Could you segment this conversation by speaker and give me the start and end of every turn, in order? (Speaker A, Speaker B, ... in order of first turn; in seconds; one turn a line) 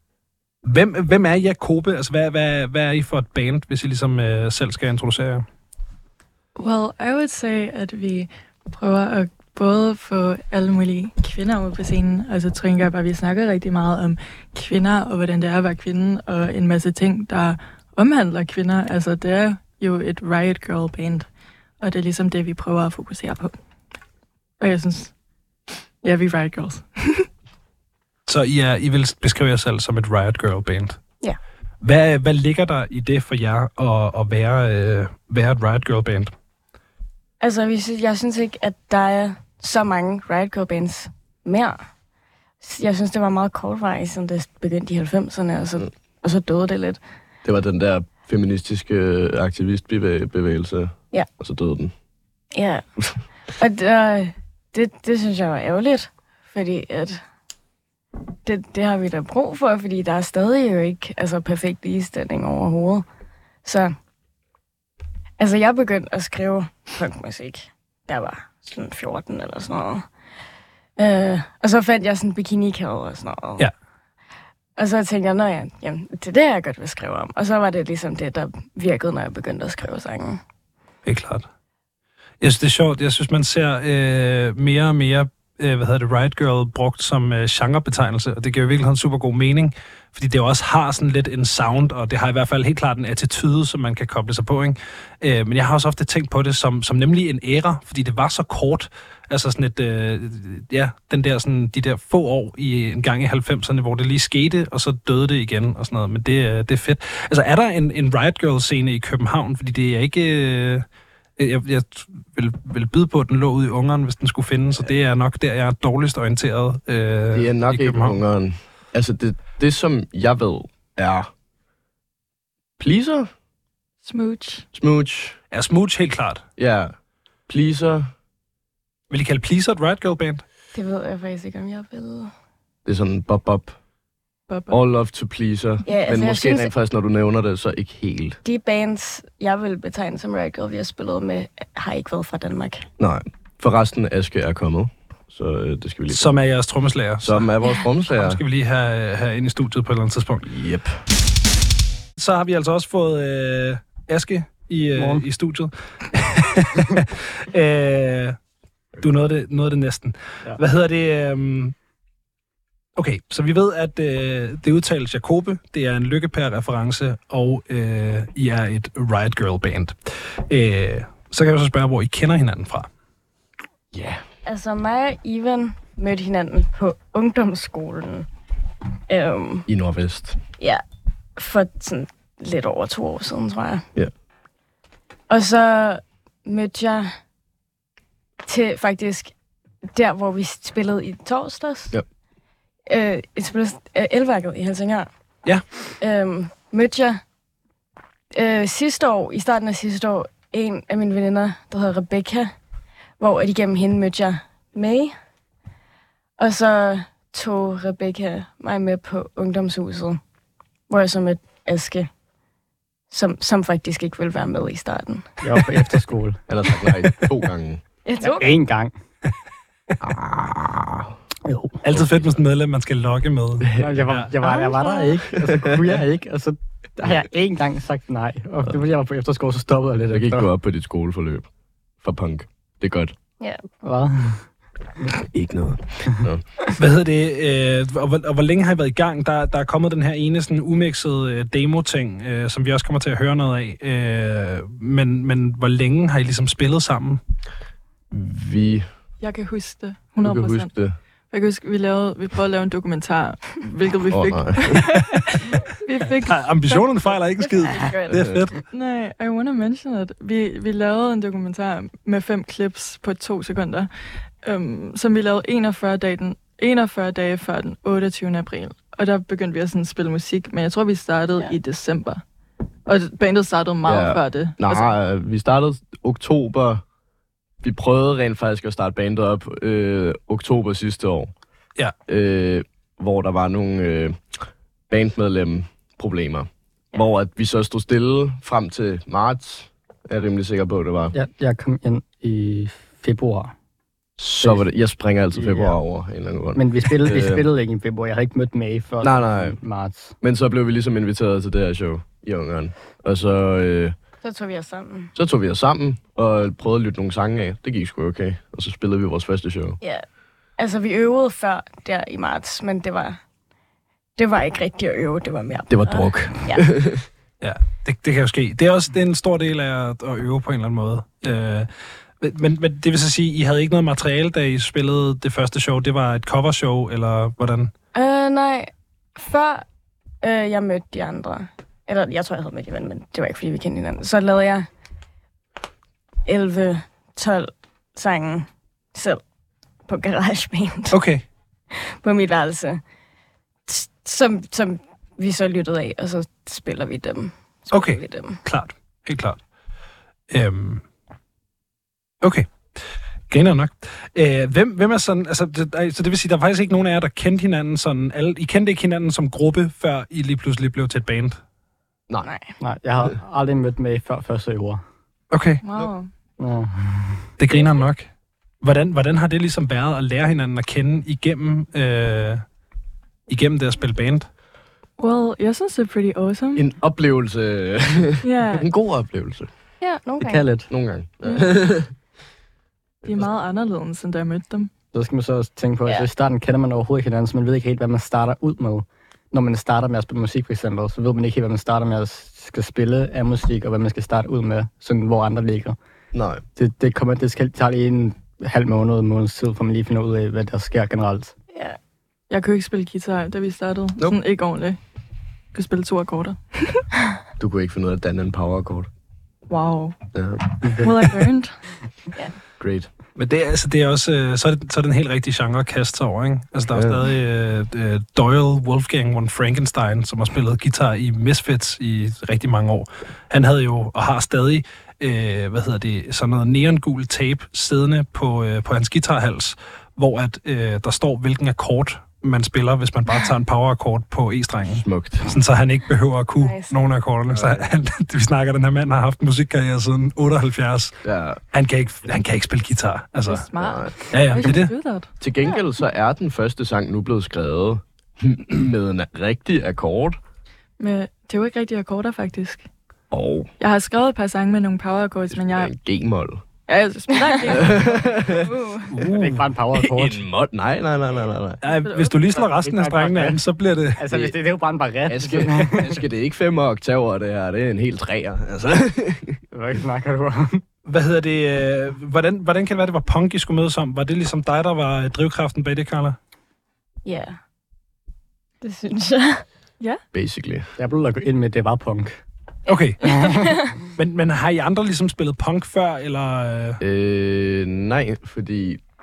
Speaker A: 0.6-5.4
Speaker B: 6.6-21.3
Speaker B: 21.8-23.6
Speaker B: 24.6-25.1
Speaker B: 26.0-27.3
Speaker A: 28.3-31.0
Speaker A: 31.8-36.3
Speaker C: 37.4-41.8
Speaker C: 42.6-47.0
Speaker D: 47.4-51.9
Speaker C: 52.5-52.8
Speaker C: 53.6-57.2
Speaker C: 58.4-63.0
Speaker C: 63.6-64.0
Speaker C: 65.4-70.1
Speaker C: 71.0-73.7
Speaker C: 74.8-80.4
Speaker A: 81.0-81.4
Speaker A: 82.4-110.8
Speaker A: 111.4-118.2
Speaker D: 117.3-121.3
Speaker D: 122.8-123.3
Speaker B: 124.0-124.7
Speaker D: 124.7-125.4
Speaker A: 125.5-126.4
Speaker D: 126.6-126.9
Speaker D: 127.5-128.1
Speaker A: 129.1-130.4
Speaker C: 130.7-132.3
Speaker D: 132.8-133.7
Speaker B: 134.5-134.8
Speaker D: 134.7-138.4
Speaker C: 135.8-136.7
Speaker C: 138.4-142.8
Speaker D: 143.0-146.3
Speaker A: 146.1-147.5
Speaker D: 147.2-148.4
Speaker A: 148.0-150.5
Speaker D: 150.4-151.0
Speaker A: 152.2-158.4
Speaker E: 154.9-155.2
Speaker A: 159.0-161.7
Speaker A: 162.9-172.9
Speaker D: 173.9-174.2
Speaker C: 174.4-178.3
Speaker C: 179.1-179.7
Speaker D: 179.7-180.4
Speaker C: 180.6-180.8
Speaker C: 181.3-183.8
Speaker C: 185.3-187.1
Speaker C: 188.4-189.3
Speaker C: 189.9-192.0
Speaker C: 192.9-195.1
Speaker C: 196.0-197.2
Speaker C: 198.3-202.5
Speaker C: 203.2-205.1
Speaker C: 206.4-210.2
Speaker C: 210.9-212.1
Speaker C: 213.1-215.4
Speaker E: 215.4-216.4
Speaker D: 216.5-217.8
Speaker C: 218.0-218.6
Speaker E: 218.2-218.9
Speaker D: 220.0-221.2
Speaker E: 221.4-221.8
Speaker A: 221.8-224.3
Speaker D: 221.9-222.3
Speaker D: 223.6-223.9
Speaker E: 223.8-230.5
Speaker C: 224.4-225.1
Speaker D: 230.1-231.5
Speaker D: 232.0-233.1
Speaker E: 233.8-234.4
Speaker D: 235.2-236.4
Speaker A: 236.7-247.2
Speaker D: 248.1-248.9
Speaker B: 249.2-250.7
Speaker D: 250.2-250.9
Speaker B: 251.3-257.1
Speaker D: 254.1-254.9
Speaker A: 256.2-258.6
Speaker C: 257.4-258.1
Speaker D: 258.1-258.4
Speaker B: 258.7-263.9
Speaker B: 264.4-272.2
Speaker B: 272.9-274.9
Speaker D: 273.8-276.8
Speaker D: 277.6-281.3
Speaker D: 282.1-284.2
Speaker D: 284.9-291.1
Speaker E: 291.1-293.5
Speaker D: 294.2-297.4
Speaker E: 294.4-294.7
Speaker E: 295.3-295.8
Speaker E: 296.6-300.1
Speaker D: 299.0-299.6
Speaker D: 300.2-303.9
Speaker C: 304.2-305.1
Speaker D: 305.1-309.8
Speaker C: 310.6-313.2
Speaker C: 314.2-316.6
Speaker D: 315.7-317.1
Speaker A: 317.4-321.7
Speaker A: 322.2-327.7
Speaker C: 327.9-329.6
Speaker C: 330.2-334.7
Speaker C: 336.2-339.2
Speaker C: 339.9-341.0
Speaker A: 340.9-341.2
Speaker C: 341.7-342.8
Speaker C: 343.7-348.4
Speaker A: 347.7-349.4
Speaker A: 350.3-350.8
Speaker A: 352.2-352.5
Speaker A: 353.3-361.4
Speaker C: 362.2-362.5
Speaker E: 362.6-364.8
Speaker A: 365.3-365.6
Speaker B: 365.6-366.1
Speaker E: 366.4-367.3
Speaker A: 367.4-368.1
Speaker A: 368.6-372.4
Speaker A: 373.3-374.3
Speaker B: 375.0-376.6
Speaker D: 376.6-379.5
Speaker B: 378.2-378.6
Speaker C: 379.8-380.4
Speaker E: 380.2-380.7
Speaker D: 380.7-381.9
Speaker B: 383.0-384.7
Speaker E: 384.9-395.8
Speaker D: 396.1-396.4
Speaker E: 396.6-401.3
Speaker C: 401.5-401.8
Speaker B: 402.3-404.8
Speaker B: 405.5-407.0
Speaker D: 407.4-408.9
Speaker B: 409.5-410.0
Speaker D: 410.1-411.1
Speaker B: 410.7-411.6
Speaker D: 412.6-412.9
Speaker A: 413.1-441.0
Speaker D: 416.7-417.0
Speaker D: 434.6-435.3
Speaker C: 436.4-436.8
Speaker D: 437.3-437.7
Speaker D: 441.0-441.4
Speaker A: 441.5-443.5
Speaker B: 443.2-445.1
Speaker D: 443.6-443.9
Speaker A: 444.1-444.7
Speaker D: 445.2-450.2
Speaker B: 450.8-452.6
Speaker D: 453.1-453.5
Speaker B: 453.6-455.7
Speaker D: 455.3-456.4
Speaker B: 456.7-458.4
Speaker C: 457.1-458.9
Speaker D: 457.5-458.5
Speaker A: 458.9-459.5
Speaker E: 459.0-460.2
Speaker D: 459.7-461.6
Speaker A: 461.6-464.1
Speaker B: 461.8-462.3
Speaker E: 462.5-463.4
Speaker E: 463.9-466.0
Speaker D: 465.1-469.4
Speaker E: 469.5-470.6
Speaker A: 470.9-476.2
Speaker C: 477.0-477.4
Speaker C: 478.6-479.4
Speaker D: 480.1-480.7
Speaker E: 480.8-482.2
Speaker C: 482.7-483.7
Speaker A: 482.7-486.8
Speaker D: 486.8-488.8